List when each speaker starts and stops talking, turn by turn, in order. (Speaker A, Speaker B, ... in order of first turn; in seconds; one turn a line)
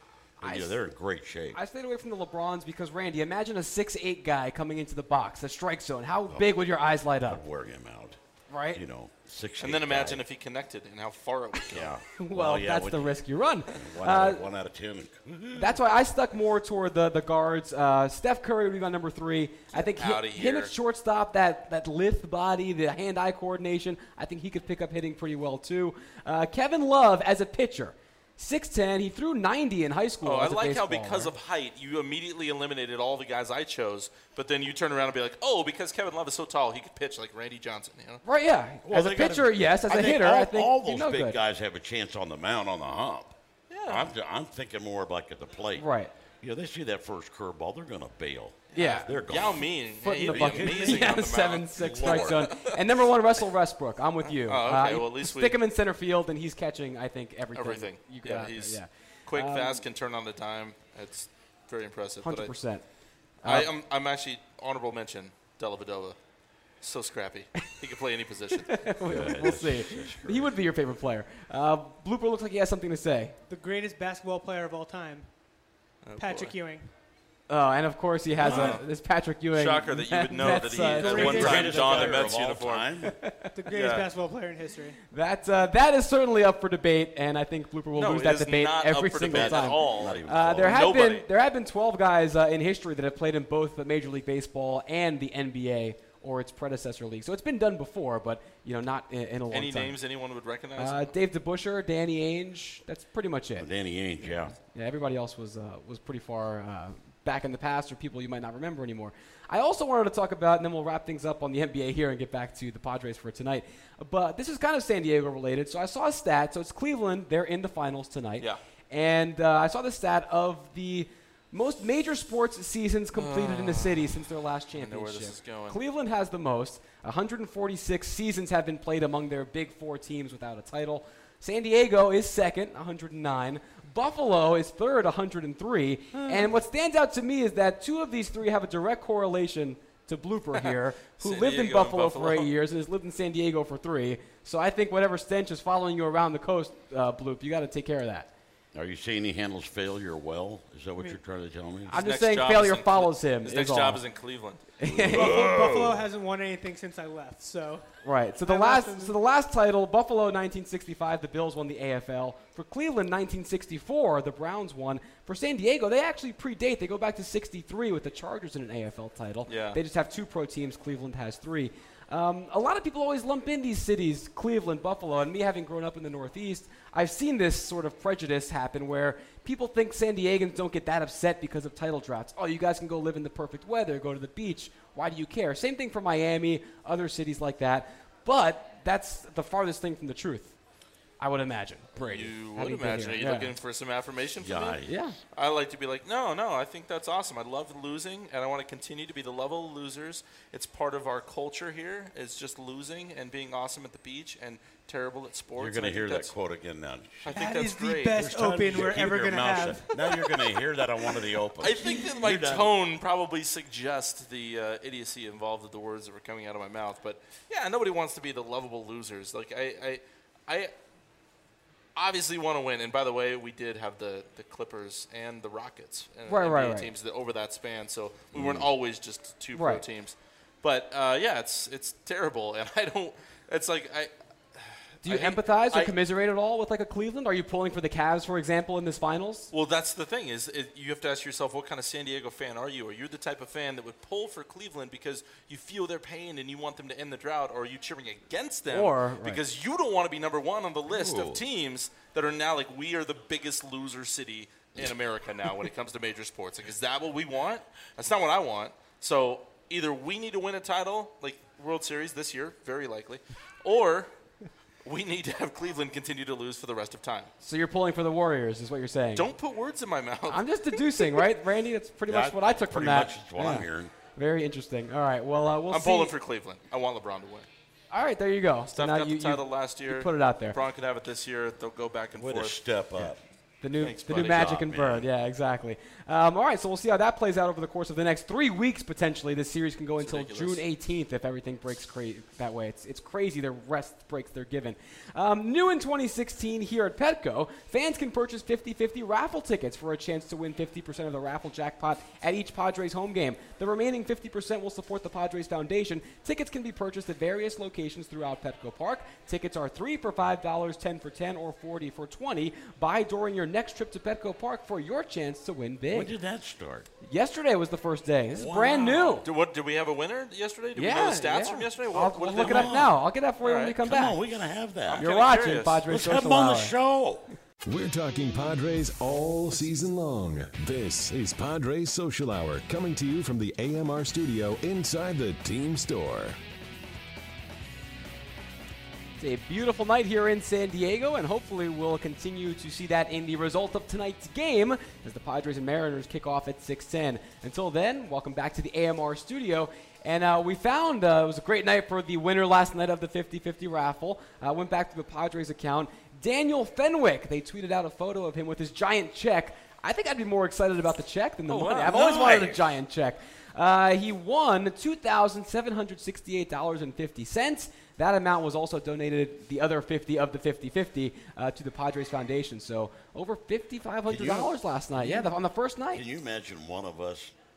Speaker A: 0.4-0.8
Speaker B: 0.4-1.6
Speaker A: 1.5-7.4
Speaker B: 6.3-6.6
Speaker B: 7.2-8.2
Speaker A: 8.5-8.8
Speaker B: 8.7-10.2
Speaker C: 9.6-11.9
Speaker B: 11.7-15.8
Speaker A: 12.2-14.4
Speaker A: 15.6-31.3
Speaker C: 19.7-20.7
Speaker C: 30.2-38.2
Speaker A: 38.2-41.4
Speaker B: 38.9-43.4
Speaker C: 43.7-44.1
Speaker B: 43.9-45.9
Speaker A: 45.8-46.1
Speaker B: 46.4-51.2
Speaker C: 48.7-52.8
Speaker A: 48.8-49.3
Speaker A: 50.0-59.8
Speaker B: 51.8-52.5
Speaker C: 54.3-55.6
Speaker C: 57.5-62.5
Speaker A: 62.2-62.8
Speaker A: 63.4-63.7
Speaker C: 63.4-66.2
Speaker C: 66.8-68.9
Speaker A: 68.7-73.4
Speaker B: 69.0-70.6
Speaker D: 73.5-75.3
Speaker C: 76.0-76.5
Speaker D: 76.2-76.9
Speaker A: 77.5-82.3
Speaker C: 78.4-78.9
Speaker B: 78.4-78.8
Speaker C: 79.5-82.9
Speaker B: 80.5-83.2
Speaker A: 83.0-83.5
Speaker D: 83.5-85.0
Speaker C: 83.7-84.1
Speaker A: 85.1-100.0
Speaker C: 87.9-91.3
Speaker B: 89.3-90.9
Speaker C: 99.5-101.2
Speaker A: 100.8-103.7
Speaker B: 103.6-104.5
Speaker A: 104.7-148.3
Speaker C: 123.2-124.2
Speaker C: 124.8-125.8
Speaker C: 136.1-136.5
Speaker C: 140.6-142.5
Speaker B: 148.7-152.0
Speaker C: 151.9-154.6
Speaker A: 151.9-154.0
Speaker A: 154.8-155.4
Speaker B: 154.8-156.1
Speaker D: 155.0-157.9
Speaker A: 158.0-190.6
Speaker D: 158.4-159.2
Speaker C: 169.5-169.8
Speaker A: 191.2-193.5
Speaker C: 192.0-194.8
Speaker B: 194.4-195.0
Speaker A: 194.9-195.2
Speaker C: 195.3-206.3
Speaker B: 205.6-207.5
Speaker C: 207.2-208.2
Speaker D: 207.3-210.3
Speaker B: 208.1-212.7
Speaker C: 211.0-220.7
Speaker C: 222.0-235.9
Speaker A: 226.3-226.9
Speaker B: 228.3-228.7
Speaker A: 229.6-229.8
Speaker A: 235.1-239.5
Speaker C: 239.5-264.1
Speaker A: 248.7-249.4
Speaker B: 250.9-251.4
Speaker C: 264.9-267.3
Speaker A: 267.4-269.3
Speaker C: 269.1-271.3
Speaker A: 270.3-276.1
Speaker B: 272.1-273.9
Speaker C: 275.7-277.5
Speaker A: 277.9-280.6
Speaker C: 278.7-282.6
Speaker B: 282.1-283.2
Speaker A: 283.6-316.1
Speaker C: 283.8-284.5
Speaker B: 284.0-285.1
Speaker C: 290.0-290.6
Speaker B: 315.9-316.9
Speaker A: 317.0-319.3
Speaker B: 318.3-319.2
Speaker C: 319.2-323.8
Speaker A: 320.8-324.2
Speaker B: 322.1-323.0
Speaker B: 323.8-325.1
Speaker C: 324.9-325.9
Speaker A: 325.0-326.8
Speaker B: 325.9-327.3
Speaker E: 327.7-336.4
Speaker A: 339.2-376.0
Speaker C: 361.5-362.0
Speaker B: 361.9-362.8
Speaker B: 374.1-375.3
Speaker B: 375.9-377.3